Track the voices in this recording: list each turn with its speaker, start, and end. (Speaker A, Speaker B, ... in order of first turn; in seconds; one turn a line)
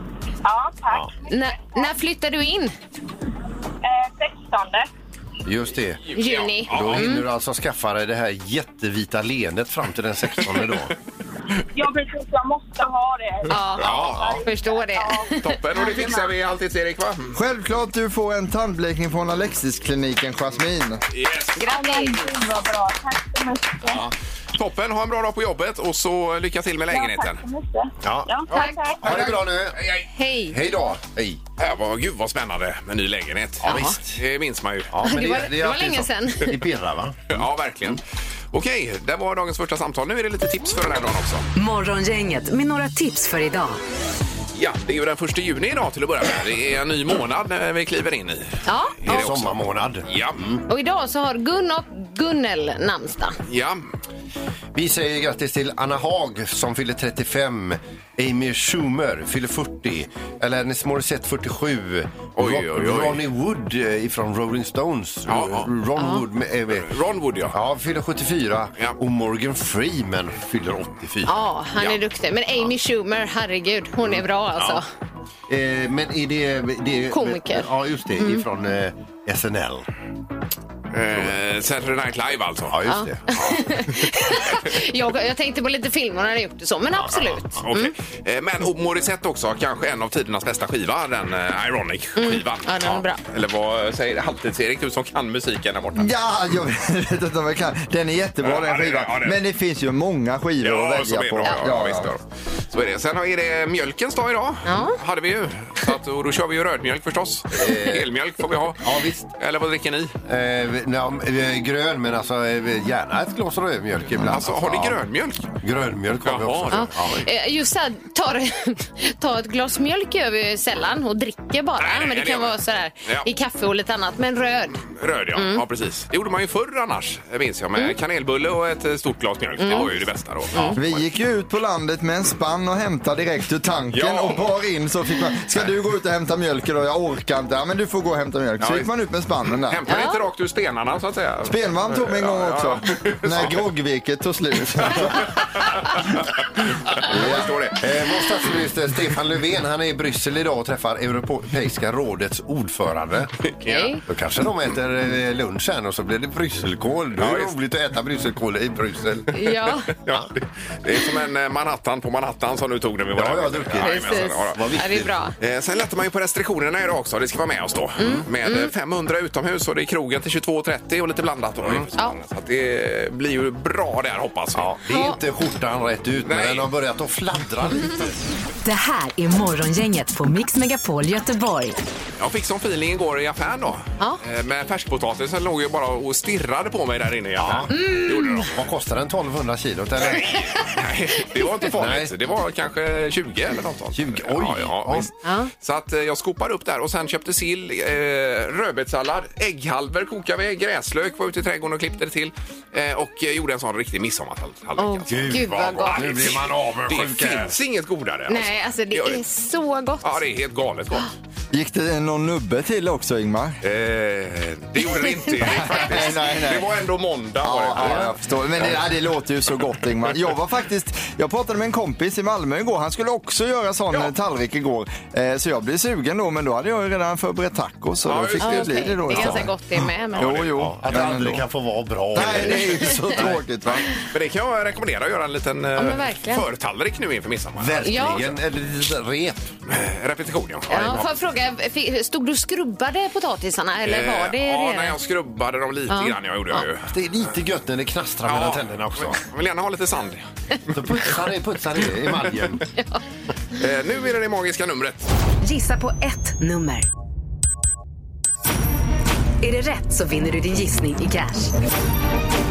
Speaker A: 0.4-1.9
Speaker B: 1.3-2.7
Speaker A: 3.8-4.9
Speaker C: 5.4-6.0
Speaker D: 6.0-7.2
Speaker B: 6.1-7.2
Speaker C: 6.7-10.9
Speaker D: 10.5-10.8
Speaker A: 11.7-16.3
Speaker B: 13.5-16.2
Speaker D: 13.8-14.4
Speaker D: 15.4-17.4
Speaker E: 17.3-21.0
Speaker D: 21.1-21.6
Speaker B: 21.6-22.3
Speaker A: 21.6-24.1
Speaker D: 24.5-27.4
Speaker A: 26.9-29.1
Speaker C: 28.0-28.3
Speaker D: 28.5-30.1
Speaker B: 28.5-28.8
Speaker C: 29.0-29.8
Speaker B: 30.1-30.6
Speaker C: 30.5-31.4
Speaker D: 31.6-34.9
Speaker C: 33.6-34.2
Speaker B: 33.6-33.9
Speaker C: 34.9-38.0
Speaker B: 35.0-36.5
Speaker D: 37.3-38.0
Speaker D: 38.5-41.5
Speaker F: 41.5-43.8
Speaker D: 44.5-48.5
Speaker B: 48.6-49.3
Speaker D: 49.0-50.4
Speaker C: 49.0-50.6
Speaker B: 50.7-53.4
Speaker D: 53.5-53.8
Speaker C: 54.7-67.0
Speaker D: 62.4-63.2
Speaker D: 65.3-65.7
Speaker B: 66.0-66.2
Speaker D: 66.7-67.5
Speaker C: 67.5-71.3
Speaker B: 71.3-74.8
Speaker C: 74.1-74.8
Speaker C: 75.5-79.8
Speaker B: 77.1-77.7
Speaker B: 78.2-78.4
Speaker D: 80.9-82.8
Speaker C: 82.7-83.6
Speaker B: 82.9-87.9
Speaker D: 84.0-84.5
Speaker C: 86.9-87.6
Speaker D: 87.6-96.1
Speaker B: 92.2-93.2
Speaker E: 95.9-102.1
Speaker D: 98.4-99.4
Speaker D: 100.6-110.1
Speaker B: 104.6-105.0
Speaker C: 107.5-108.1
Speaker C: 108.8-109.3
Speaker C: 110.2-115.0
Speaker D: 114.2-115.5
Speaker C: 115.6-117.2
Speaker D: 116.2-116.8
Speaker B: 116.7-125.6
Speaker D: 121.8-123.3
Speaker D: 124.9-131.1
Speaker B: 129.6-129.9
Speaker B: 130.5-130.8
Speaker E: 130.8-139.8
Speaker D: 133.9-134.5
Speaker D: 138.6-138.9
Speaker D: 139.5-143.6
Speaker B: 139.9-140.2
Speaker E: 141.4-145.4
Speaker D: 144.8-146.4
Speaker D: 146.9-147.8
Speaker E: 147.0-147.5
Speaker C: 147.1-153.3
Speaker D: 153.5-153.9
Speaker B: 153.6-154.0
Speaker C: 154.1-159.3
Speaker D: 157.2-157.5
Speaker B: 159.3-159.9
Speaker D: 159.9-164.6
Speaker C: 163.1-165.2
Speaker B: 163.8-165.3
Speaker D: 165.4-174.7
Speaker B: 168.0-168.7
Speaker C: 174.6-178.2
Speaker B: 174.9-175.2
Speaker D: 176.2-176.7
Speaker F: 178.6-181.8
Speaker D: 182.2-188.7
Speaker C: 187.4-187.8
Speaker B: 187.7-188.5
Speaker C: 188.5-190.4
Speaker D: 190.0-209.2
Speaker C: 191.7-192.1
Speaker C: 193.9-195.1
Speaker B: 195.2-195.5
Speaker B: 204.8-206.3
Speaker C: 205.1-207.6
Speaker B: 208.3-210.2
Speaker D: 210.0-211.1
Speaker E: 211.5-213.6
Speaker D: 213.6-218.8
Speaker B: 214.8-215.2
Speaker E: 215.4-216.7
Speaker E: 217.4-229.5
Speaker C: 217.8-218.0
Speaker D: 228.0-229.5
Speaker B: 228.4-230.4
Speaker D: 230.1-230.6
Speaker E: 230.2-231.5
Speaker C: 230.6-233.4
Speaker E: 232.1-233.9
Speaker B: 232.4-233.2
Speaker D: 234.1-238.3
Speaker B: 235.8-236.4
Speaker C: 237.6-239.5
Speaker B: 237.8-238.2
Speaker D: 239.7-241.1
Speaker B: 240.7-245.0
Speaker C: 240.7-241.1
Speaker D: 243.8-246.9
Speaker B: 245.9-246.1
Speaker C: 246.9-249.2
Speaker D: 248.2-250.2
Speaker C: 250.7-252.6
Speaker B: 252.8-253.0
Speaker D: 253.6-255.1
Speaker F: 255.4-256.9
Speaker F: 259.4-261.5